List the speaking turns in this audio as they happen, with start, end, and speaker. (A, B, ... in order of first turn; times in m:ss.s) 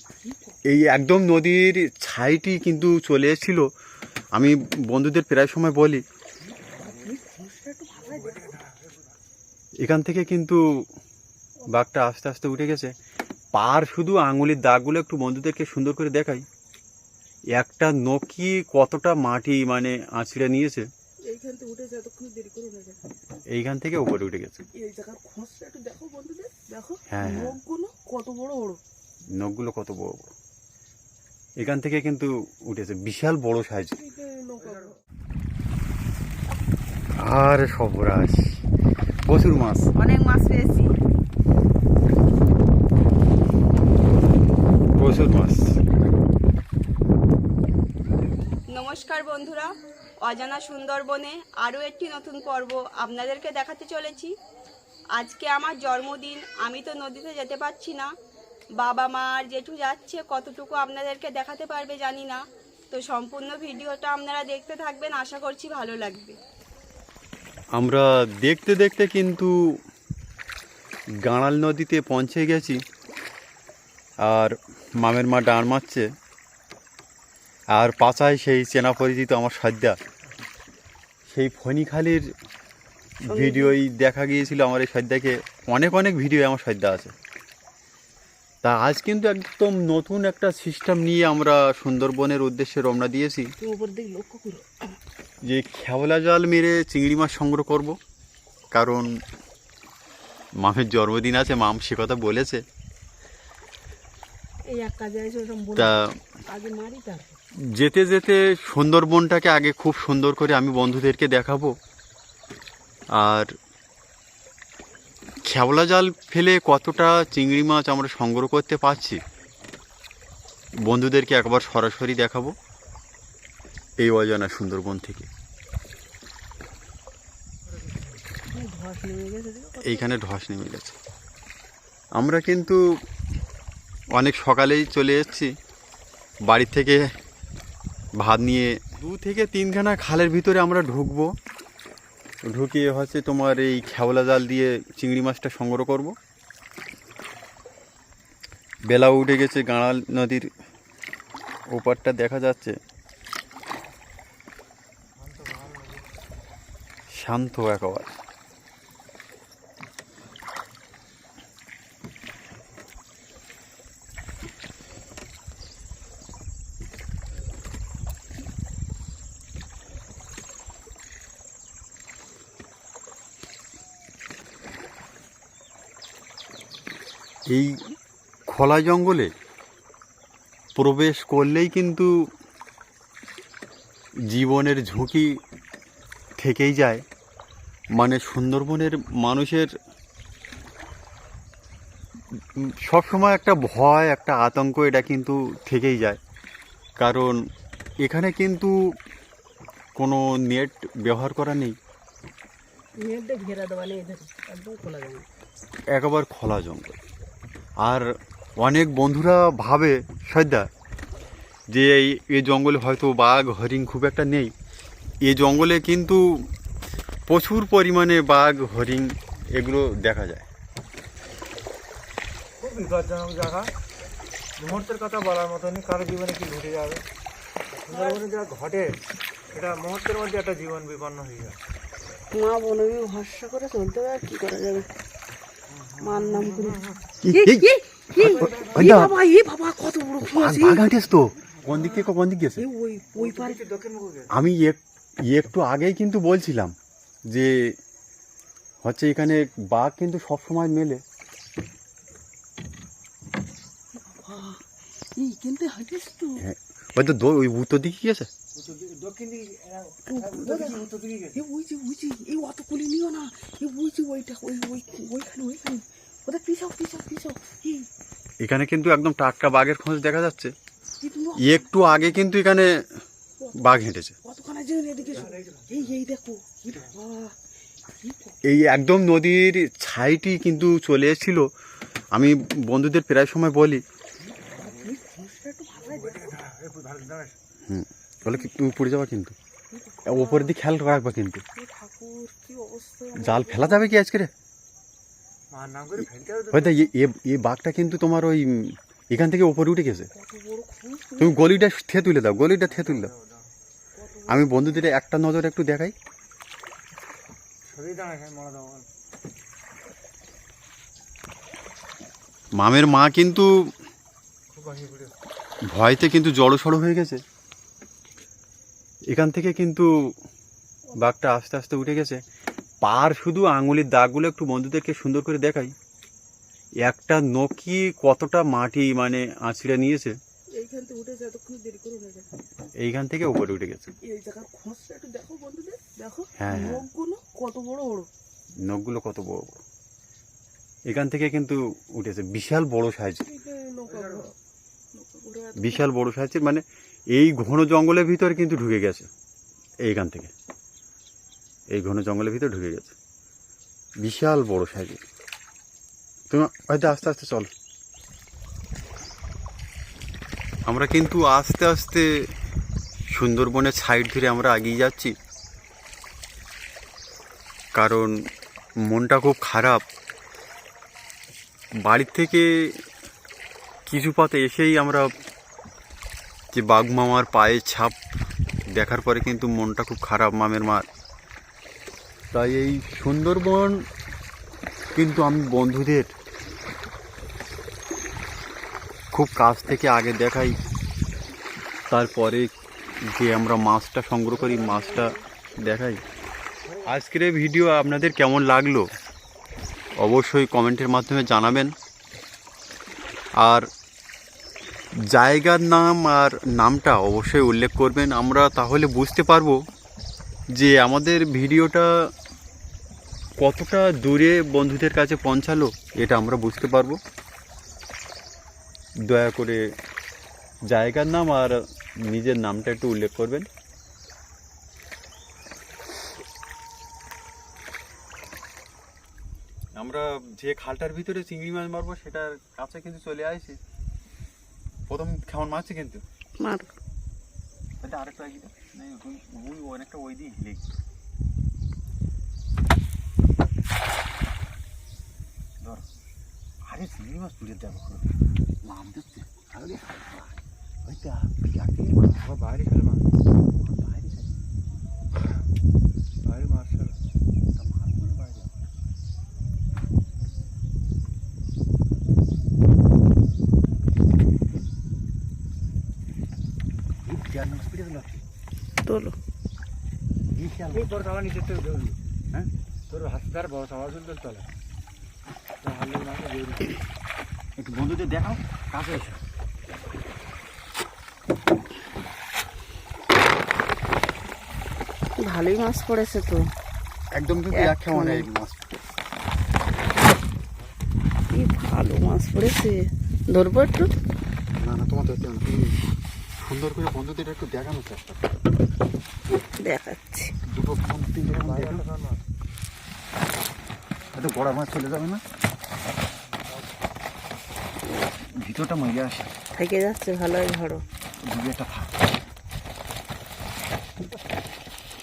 0:00.2-0:00.6 A
0:00.7-0:03.7 B
0:04.3-0:06.0 B
0:06.6-0:08.5 A
0:06.7-0:07.1 C
0:08.0-0:09.2 C
0:09.8-0:10.6 B
0:11.7-0:12.9 B
0:13.5-0:16.4 B
0:17.5-0:20.9 B
0:21.3-0:23.0 A
0:23.5-0:24.6 B
0:24.8-0:28.8 A
0:27.1-0:27.6 B
0:29.3-0:30.3 B
0:31.6-0:34.0 B
0:34.0-0:34.9 A
0:37.2-0:38.6 B
0:39.3-0:39.9 B
0:40.0-0:40.9 A
0:45.0-0:45.8 B
0:48.7-0:49.7 D
0:50.2-0:54.3 D
0:55.2-0:58.1 D
0:58.8-1:06.4 D
1:07.7-1:09.5 B
1:11.2-1:12.8 B
1:14.2-1:16.1 B
1:17.7-1:20.0 B
1:21.3-1:22.3 B
1:23.2-1:27.1 B
1:23.3-1:23.8 A
1:28.6-1:33.5 B
1:33.6-1:34.7 A
1:35.4-1:38.0 B
1:38.7-1:39.1 B
1:40.6-1:42.6 B
1:44.7-1:46.0 A
1:45.7-1:46.1 B
1:46.5-1:47.4 A
1:47.7-1:51.8 B
1:53.1-1:53.5 B
1:55.4-1:59.2 B
2:00.8-2:02.6 B
2:04.0-2:05.3 B
2:07.7-2:08.3 C
2:08.5-2:10.1 A
2:09.8-2:11.0 B
2:12.2-2:12.8 B
2:14.1-2:15.5 B
2:16.5-2:17.1 B
2:18.2-2:21.3 B
2:22.4-2:26.2 B
2:28.9-2:30.5 B
2:31.7-2:32.8 B
2:35.2-2:36.3 C
2:37.1-2:38.2 B
2:57.5-2:57.8 B
2:58.5-2:59.3 B
3:00.8-3:02.1 B
3:04.3-3:05.4 B
3:06.4-3:07.0 B
3:08.0-3:09.7 B
3:12.3-3:16.2 B
3:17.0-3:17.4 B
3:18.0-3:18.7 B
3:20.0-3:21.8 B
3:23.0-3:25.3 A
3:25.9-3:27.0 B
3:27.8-3:30.7 B
3:31.7-3:34.5 B
3:35.2-3:36.5 B
3:37.3-3:40.5 B
3:42.6-3:43.7 C
3:44.6-3:47.0 C
3:47.8-3:48.9 C
3:49.5-3:51.6 C
3:52.3-3:54.9 A
3:55.7-3:57.0 C
3:56.0-4:00.8 A
3:57.2-3:57.7 B
3:58.2-3:59.0 C
3:58.2-3:59.2 B
4:00.2-4:02.7 B
4:01.7-4:02.1 C
4:02.6-4:03.6 A
4:03.1-4:04.3 C
4:04.3-4:06.8 B
4:07.3-4:07.7 B
4:08.8-4:11.0 B
4:14.0-4:14.6 A
4:15.2-4:16.4 A
4:16.4-4:18.3 B
4:18.6-4:21.4 C
4:20.1-4:20.8 A
4:21.4-4:27.9 A
4:28.4-4:30.5 B
4:31.0-4:31.7 A
4:31.4-4:32.7 B
4:33.6-4:34.2 B
4:34.2-4:37.4 A
4:35.2-4:35.8 C
4:37.9-4:38.4 A
4:38.5-4:41.5 B
4:42.1-4:43.8 B
4:44.3-4:46.3 A
4:44.5-4:44.8 C
4:45.8-4:47.4 C
4:47.7-4:49.4 B
4:49.7-4:50.6 A
4:50.1-4:51.4 B
4:51.6-4:54.0 A
4:53.2-4:54.3 B
4:55.5-4:56.9 C
4:56.5-5:00.1 B
5:00.1-5:01.5 A
5:01.2-5:03.1 B
5:02.7-5:03.4 C
5:04.0-5:04.9 A
5:04.3-5:05.9 B
5:07.7-5:08.9 C
5:12.6-5:13.5 B
5:14.5-5:15.1 C
5:15.7-5:17.2 B
5:19.1-5:19.9 B
5:21.0-5:22.2 B
5:22.8-5:25.7 B
5:26.8-5:30.2 B
5:30.6-5:32.3 A
5:32.8-5:33.9 B
5:34.0-5:38.1 A
5:36.4-5:36.9 B
5:38.6-5:39.6 B
5:40.9-5:43.2 B
5:43.3-5:44.3 A
5:43.9-5:44.3 C
5:45.0-5:45.9 A
5:45.6-5:49.1 B
5:49.8-5:50.3 B
5:51.7-5:53.0 B
5:54.0-5:55.0 B
5:56.3-5:57.5 B
6:00.7-6:02.1 B
6:03.1-6:05.2 B
6:07.8-6:08.2 B
6:08.8-6:09.8 B
6:11.8-6:12.8 B
6:13.9-6:15.1 B
6:16.5-6:18.0 B
6:18.7-6:20.9 B
6:22.3-6:23.9 B
6:25.0-6:26.1 B
6:29.1-6:30.6 B
6:31.9-6:32.5 B
6:33.1-6:36.0 B
6:34.6-6:35.1 A
6:36.7-6:36.9 C
6:36.8-6:38.9 B
6:40.0-6:41.7 B
6:43.4-6:43.7 B
6:45.0-6:49.6 B
6:50.5-6:52.1 B
6:53.4-6:57.0 B
6:59.0-6:59.7 B
7:00.7-7:03.5 B
7:09.8-7:13.6 B
7:14.9-7:16.0 B
7:16.4-7:16.7 A
7:17.8-7:20.8 B
7:25.6-7:25.9 B
7:26.7-7:32.3 B
7:32.2-7:33.1 C
7:33.6-7:34.4 B
7:36.2-7:37.0 C
7:37.5-7:38.7 B
7:47.0-7:48.2 B
7:48.8-7:49.2 A
7:50.2-7:51.0 B
7:50.7-7:52.0 C
7:52.9-7:54.5 C
7:55.6-7:56.8 C
7:57.6-7:59.2 B
8:05.3-8:06.4 A
8:07.1-8:08.7 B
8:07.5-8:08.3 A
8:11.3-8:12.8 A
8:13.3-8:13.9 A
8:14.6-8:15.8 B
8:16.4-8:18.3 B
8:19.6-8:20.3 A
8:20.5-8:21.9 B
8:21.3-8:22.2 C
8:24.1-8:25.2 B
8:26.2-8:26.8 C
8:28.2-8:29.3 B
8:29.6-8:30.8 A
8:31.2-8:32.0 B